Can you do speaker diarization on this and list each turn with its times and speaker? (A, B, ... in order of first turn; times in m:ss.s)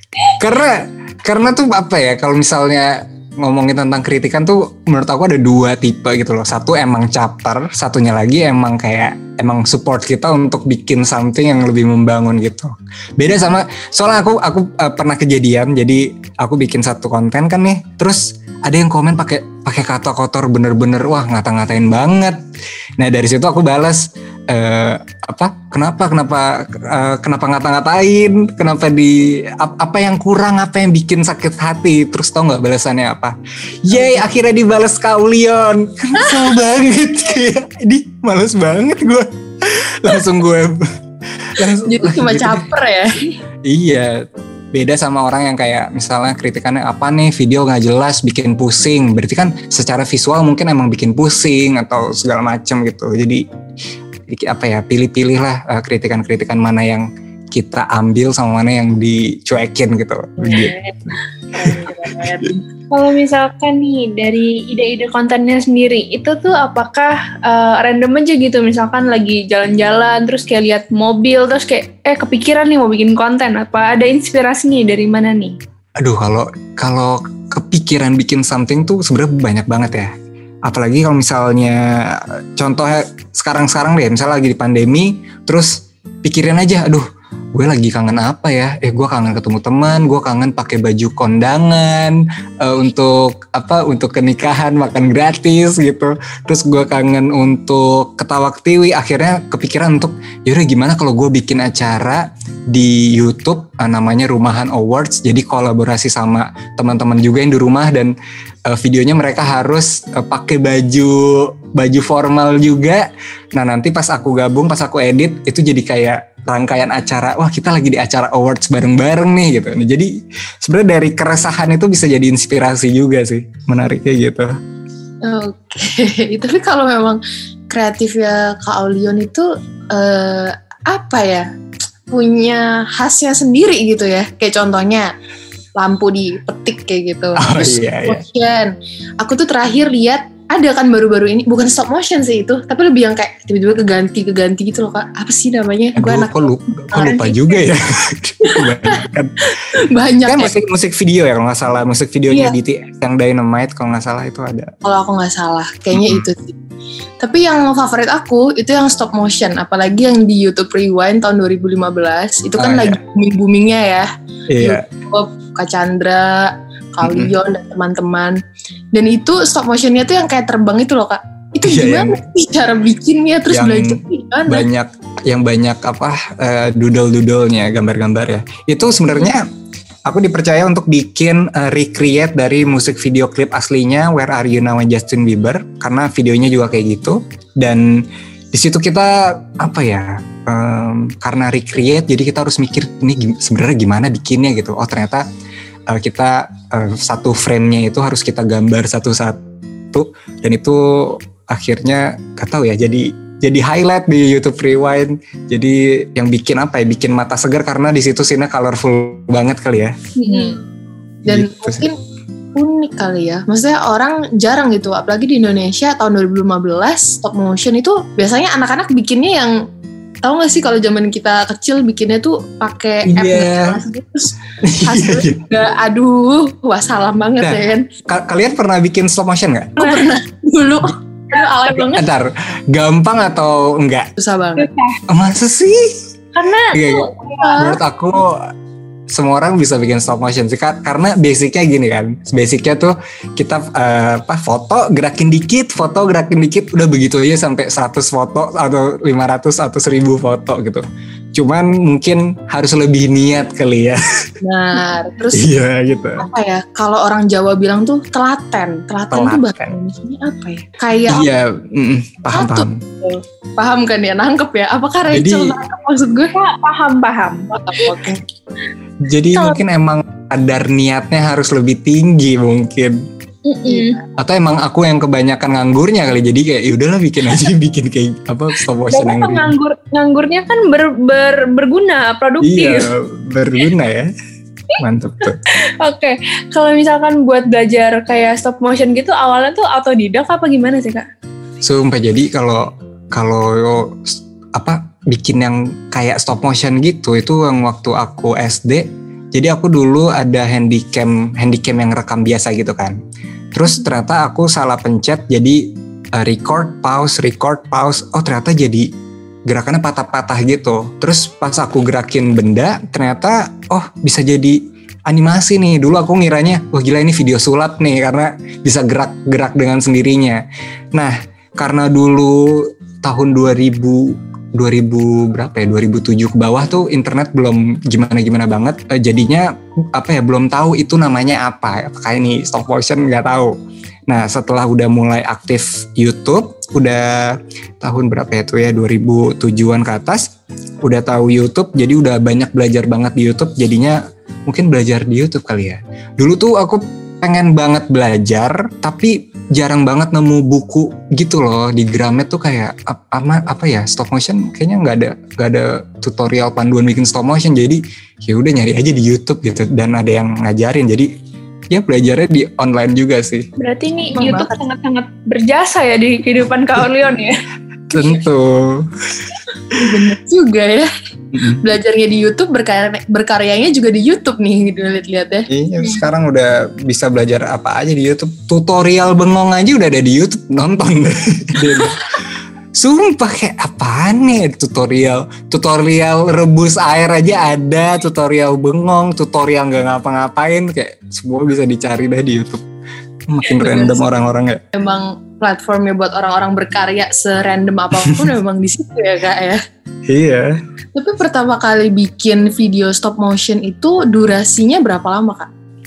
0:00.4-0:22.4 A
0:23.0-0:40.9 A
0:34.0-0:34.2 B
0:41.4-0:42.7 A
0:41.8-0:43.3 B
0:43.6-0:53.4 A
0:54.3-1:01.1 A
1:00.4-1:01.0 B
1:01.6-1:02.6 B
1:02.9-1:15.6 C
1:16.0-1:20.1 A
1:20.7-1:48.2 A
1:48.7-2:00.1 A
2:00.6-2:04.5 A
2:05.2-2:11.5 B
2:12.1-2:15.1 B
2:15.8-2:27.6 B
2:17.4-2:18.2 A
2:26.0-2:29.4 A
2:28.4-2:30.6 B
2:30.3-2:34.7 A
2:34.8-2:36.6 B
2:35.9-2:36.2 A
2:37.2-2:44.1 B
2:42.6-2:43.0 A
2:44.5-2:44.8 A
2:44.6-2:48.4 B
2:47.0-2:47.4 A
2:48.9-2:54.7 B
2:51.6-2:52.2 A
2:53.5-2:59.5 A
3:00.1-3:15.2 A
3:15.9-3:19.4 A
3:19.9-3:30.0 A
3:30.2-3:30.6 C
3:30.2-3:30.6 B
3:31.3-3:31.9 A
3:31.3-3:32.0 B
3:32.6-3:39.6 B
3:40.2-3:47.9 B
3:43.0-3:43.8 A
3:44.6-3:45.4 A
3:47.4-3:49.9 A
3:49.8-3:52.1 B
3:51.7-3:54.1 A
3:54.2-3:54.7 B
3:54.6-3:55.0 C
3:55.1-3:55.9 A
3:56.3-3:57.6 C
3:56.7-3:58.5 A
3:57.4-3:57.8 B
3:59.1-4:10.8 A
4:11.4-4:14.0 A
4:14.4-4:15.5 B
4:15.3-4:16.2 A
4:16.2-4:21.3 B
4:19.1-4:19.8 A
4:21.1-4:22.8 A
4:22.3-4:26.3 B
4:25.1-4:25.6 A
4:26.3-4:27.9 C
4:27.5-4:28.2 B
4:29.0-4:33.0 A
4:33.5-4:34.0 C
4:33.7-4:34.0 B
4:34.2-4:39.5 A
4:38.9-4:42.9 C
4:42.4-4:44.1 A
4:44.8-4:45.4 A
4:45.8-4:51.1 C
4:51.6-5:03.0 A
5:03.5-5:08.9 A
5:09.5-5:20.4 A
5:21.0-5:33.5 A
5:34.1-5:40.3 A
5:40.8-6:01.1 A
6:01.7-6:03.5 A
6:03.6-6:07.4 C
6:04.2-6:04.6 B
6:07.9-6:09.3 A
6:09.8-6:10.9 B
6:11.3-6:11.6 A
6:11.5-6:15.9 B
6:15.5-6:22.1 A
6:22.8-6:32.6 A
6:33.3-6:34.6 A
6:33.5-6:34.1 B
6:34.7-6:39.6 B
6:38.0-6:38.3 A
6:40.1-6:40.6 A
6:41.0-6:45.5 B